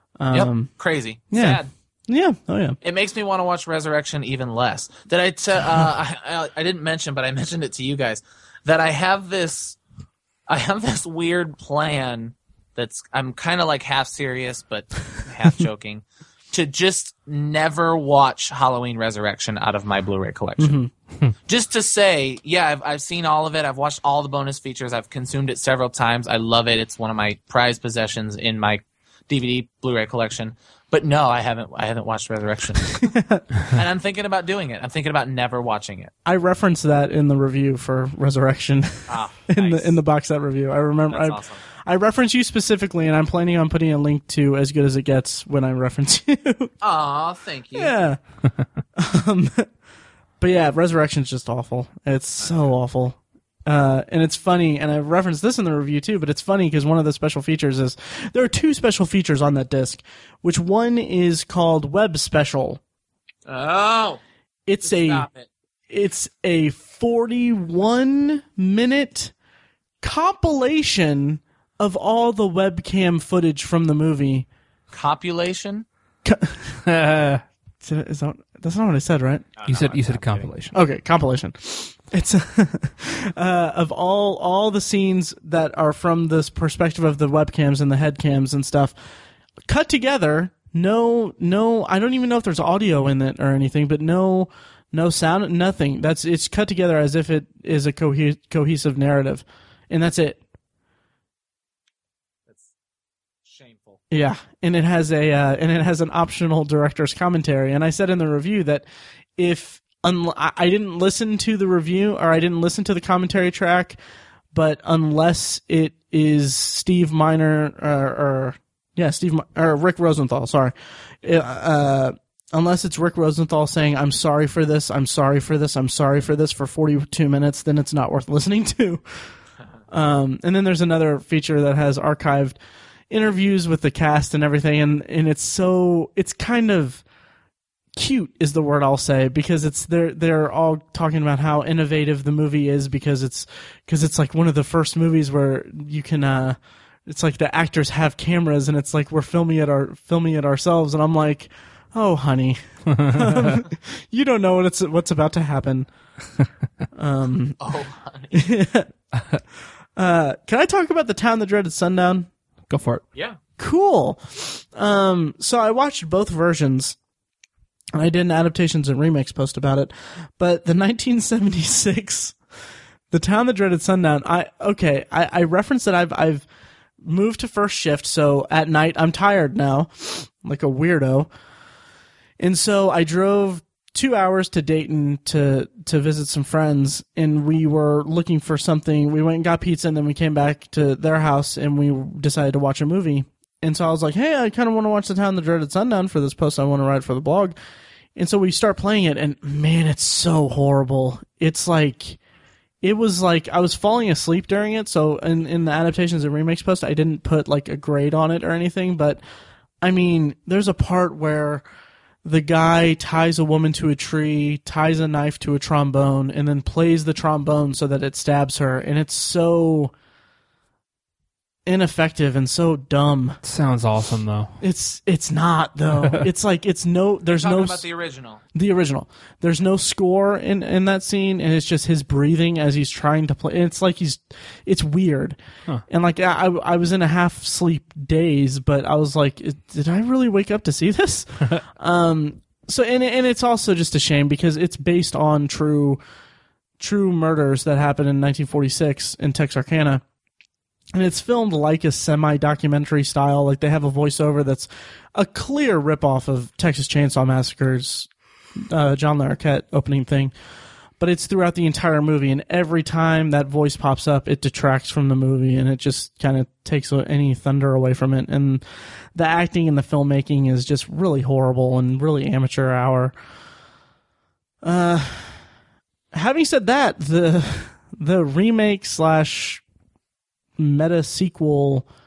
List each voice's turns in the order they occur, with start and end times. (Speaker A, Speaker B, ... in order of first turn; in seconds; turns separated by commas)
Speaker A: 0.2-0.7, Speaker B: 0.3-1.7, Speaker A: 1.3-2.8, Speaker B: 2.8-9.8, Speaker B: 10.5-20.8, Speaker A: 20.6-20.9, Speaker B: 21.5-36.1, Speaker A: 33.0-33.5, Speaker A: 36.3-46.7, Speaker B: 39.1-40.0, Speaker B: 41.1-41.6, Speaker B: 46.8-48.0, Speaker A: 47.8-48.2, Speaker A: 49.0-49.7, Speaker A: 50.4-62.8, Speaker B: 52.4-52.7, Speaker B: 63.5-64.2, Speaker A: 64.7-65.3, Speaker B: 64.8-65.5, Speaker A: 65.9-69.3, Speaker A: 70.0-74.5, Speaker B: 74.9-75.9, Speaker A: 76.2-76.8, Speaker C: 76.8-77.4, Speaker A: 77.8-79.5, Speaker B: 79.6-80.5, Speaker C: 79.7-80.8, Speaker A: 80.7-88.9, Speaker A: 89.7-100.4, Speaker B: 103.5-104.0, Speaker A: 104.1-108.8, Speaker A: 109.4-114.0, Speaker A: 114.5-129.0, Speaker A: 129.9-132.6, Speaker A: 133.1-137.0, Speaker A: 138.0-155.9, Speaker C: 152.9-153.6, Speaker A: 156.9-157.6, Speaker B: 157.6-158.4, Speaker A: 158.3-158.9, Speaker A: 160.0-162.3, Speaker C: 162.7-163.0, Speaker A: 163.6-167.0, Speaker A: 167.9-172.4, Speaker A: 173.1-176.4, Speaker A: 177.0-181.3, Speaker A: 182.4-197.6, Speaker A: 198.2-202.2, Speaker A: 202.8-209.2, Speaker A: 209.8-211.6, Speaker A: 212.2-219.9, Speaker A: 221.7-223.4, Speaker C: 223.4-224.6, Speaker A: 224.6-227.9, Speaker C: 226.0-226.3, Speaker B: 227.4-228.4, Speaker A: 228.5-235.4, Speaker A: 235.9-246.0, Speaker A: 246.8-250.0, Speaker A: 250.9-260.3, Speaker A: 261.0-268.6, Speaker A: 269.1-273.1, Speaker A: 274.6-275.4, Speaker A: 276.1-279.6, Speaker A: 280.6-281.9